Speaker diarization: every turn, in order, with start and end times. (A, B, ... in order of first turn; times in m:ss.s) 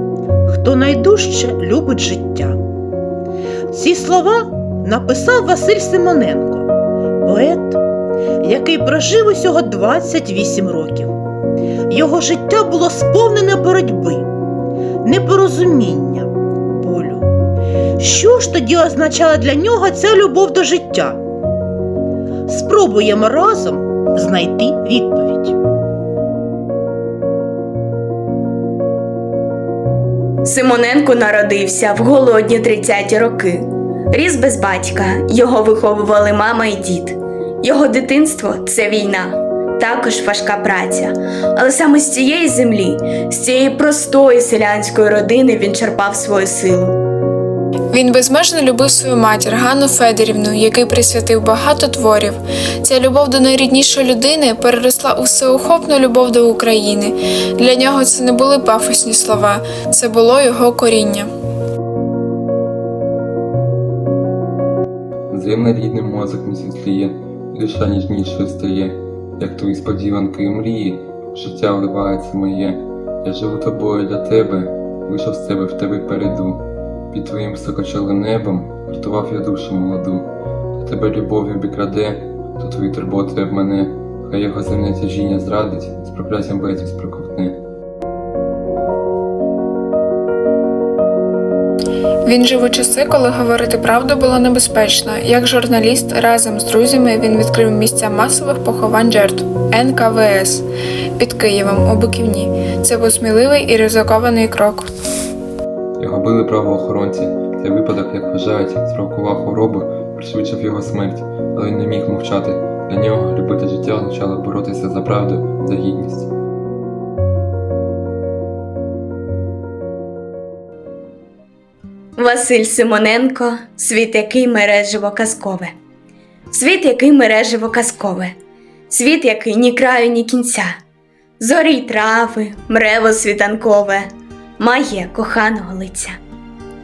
0:00.4-0:02.6 A
0:03.7-0:07.8 A
0:08.4-0:11.1 A
0:11.9-0:14.3 A
0:15.0-0:17.3 A
0:18.0-0:21.2 A
0:22.5-0:25.6 A
0:30.5-0:47.0 B
0:47.9-1:01.3 C
1:05.3-1:27.6 D
1:32.2-1:40.6 C
1:41.2-1:44.9 C
1:46.0-1:56.3 D
2:02.2-2:05.7 B
2:06.5-2:08.3 B
2:08.9-2:10.8 B
2:11.4-2:16.2 B